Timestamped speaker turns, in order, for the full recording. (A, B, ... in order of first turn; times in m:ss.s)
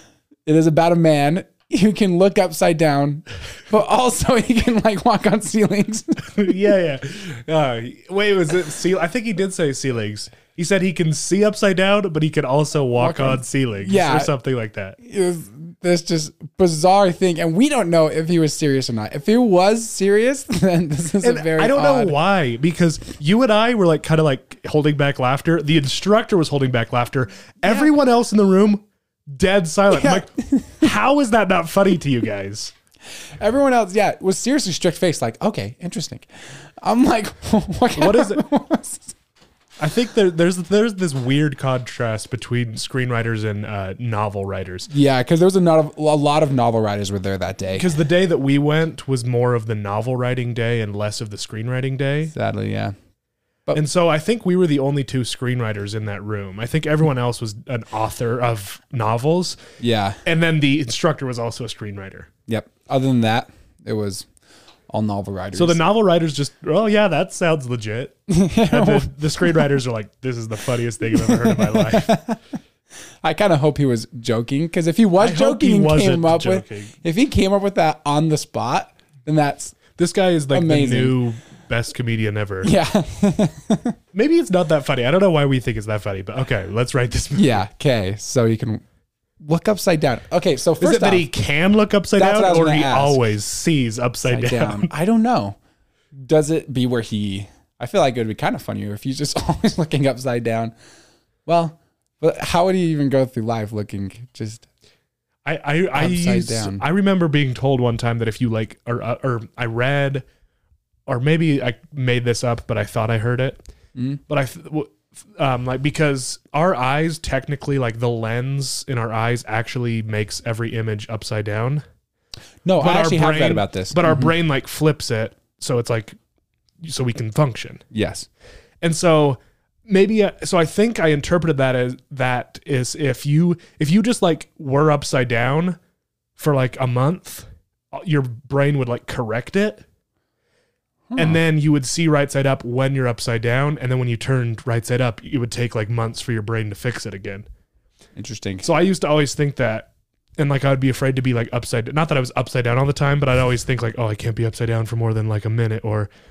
0:00.5-0:06.6 A
0:06.2-0:15.0 B
0:13.0-0:14.3 A
0:15.0-0:22.2 A
0:21.2-0:30.3 B
0:27.6-0:27.9 A
0:29.9-0:30.9 A
0:30.8-0:32.7 B
0:33.1-0:39.2 A
0:38.0-0:38.4 B
0:39.8-0:44.9 B
0:44.9-0:47.9 A
0:47.8-0:52.3 B
0:52.3-0:52.9 A
0:53.7-0:59.6 B
0:59.8-1:00.2 A
1:00.2-1:02.3 B
1:02.5-1:04.3 A
1:04.9-1:05.8 A
1:05.5-1:12.2 B
1:08.3-1:09.7 A
1:11.0-1:12.4 A
1:13.2-1:19.8 A
1:15.2-1:17.0 B
1:20.0-1:22.7 B
1:20.5-1:21.2 A
1:22.6-1:24.0 A
1:24.1-1:27.6 B
1:27.4-1:28.8 A
1:29.4-1:31.3 A
1:30.8-1:34.9 B
1:32.2-1:33.2 A
1:34.2-1:35.6 A
1:36.2-1:40.7 A
1:41.5-1:44.7 A
1:45.4-1:50.2 B
1:46.0-1:46.8 A
1:51.1-1:53.7 B
1:54.0-1:54.2 A
1:54.3-2:01.8 B
2:02.6-2:04.3 A
2:02.8-2:06.2 B
2:06.8-2:07.8 B
2:07.9-2:08.3 A
2:08.8-2:15.8 B
2:16.4-2:19.8 B
2:21.1-2:21.4 A
2:21.2-2:27.5 B
2:28.2-2:28.7 A
2:28.6-2:36.1 B